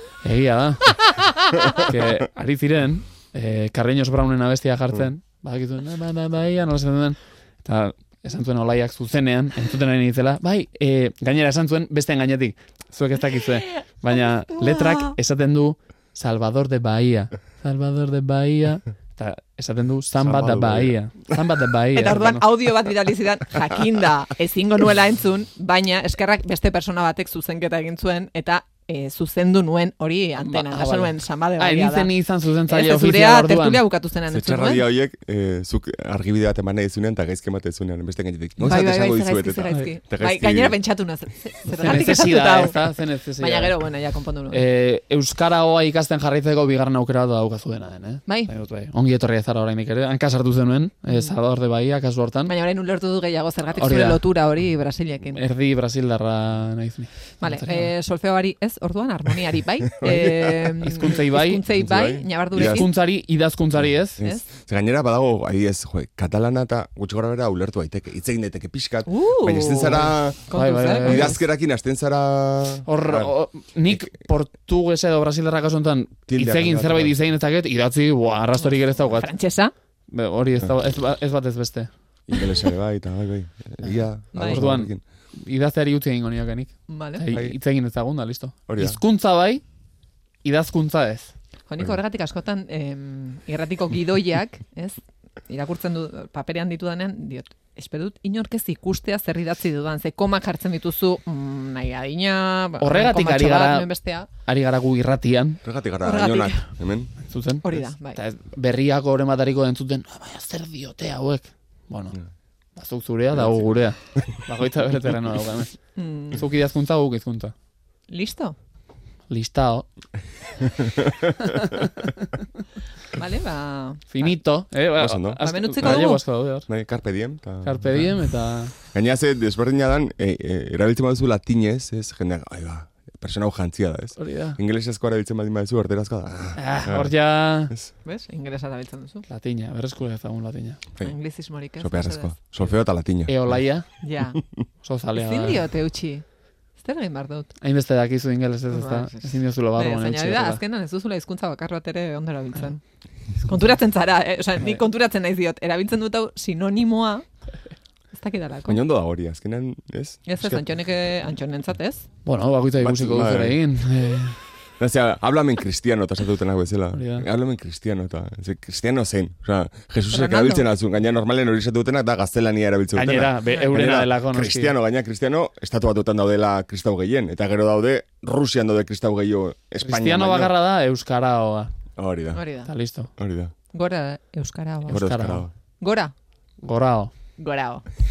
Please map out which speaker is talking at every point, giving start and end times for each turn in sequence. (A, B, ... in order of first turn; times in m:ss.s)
0:00.2-0:01.0 A
0:01.1-0:01.4 B
0:01.7-0:22.4 A
0:13.7-0:15.2 B
0:20.2-0:21.0 C
0:22.0-0:32.2 B
0:30.4-0:33.8 A
0:32.7-0:34.8 B
0:34.3-0:40.8 C
0:38.6-0:44.6 B
0:41.7-0:43.8 A
0:44.5-0:52.5 A
0:52.5-0:55.4 B
0:53.8-0:54.2 A
0:55.3-0:57.9 A
0:57.4-1:02.9 B
1:00.0-1:01.1 C
1:00.8-1:01.6 A
1:01.7-1:02.9 C
1:02.6-1:04.2 A
1:04.2-1:13.3 C
1:09.1-1:11.4 B
1:10.5-1:11.4 A
1:12.9-1:19.3 A
1:16.3-1:17.2 C
1:18.6-1:19.7 B
1:20.1-1:21.9 A
1:22.3-1:25.0 C
1:24.4-1:24.6 B
1:24.4-1:29.6 A
1:26.9-1:27.3 B
1:28.7-1:29.0 C
1:30.4-1:31.3 A
1:31.7-1:35.0 B
1:35.5-1:44.3 B
1:42.8-1:43.9 A
1:44.5-1:45.6 A
1:45.6-1:47.1 C
1:46.0-1:46.7 B
1:47.3-1:52.2 A
1:47.6-1:48.2 B
1:52.8-1:55.8 A
1:56.0-1:56.4 B
1:56.3-1:57.5 A
1:58.1-1:58.6 B
1:59.3-1:59.9 A
2:00.6-2:01.7 C
2:01.4-2:02.3 A
2:03.1-2:04.3 B
2:04.1-2:06.7 A
2:05.0-2:06.0 C
2:05.4-2:06.2 B
2:06.7-2:08.1 C
2:07.6-2:08.7 A
2:08.9-2:17.1 C
2:14.2-2:14.6 A
2:16.6-2:17.7 A
2:18.0-2:19.2 B
2:19.3-2:20.8 A
2:21.0-2:22.5 B
2:21.8-2:23.5 C
2:23.3-2:23.9 A
2:24.0-2:24.4 B
2:24.8-2:25.6 A
2:25.1-2:26.2 B
2:26.8-2:27.5 B
2:27.6-2:30.6 A
2:28.7-2:32.8 B
2:33.4-2:37.2 B
2:38.1-2:38.8 B
2:38.7-2:40.6 C
2:40.3-2:42.0 B
2:42.2-2:44.4 A
2:42.8-2:43.6 C
2:44.8-3:00.5 C
2:46.9-2:47.3 A
2:50.1-2:50.7 B
2:53.0-2:54.7 A
2:59.8-3:01.7 A
3:02.0-3:02.4 C
3:02.3-3:02.7 B
3:02.7-3:03.1 A
3:03.2-3:03.5 C
3:03.7-3:05.1 B
3:04.9-3:05.5 A
3:04.9-3:05.5 C
3:05.8-3:06.1 B
3:06.6-3:07.1 A
3:07.4-3:07.8 B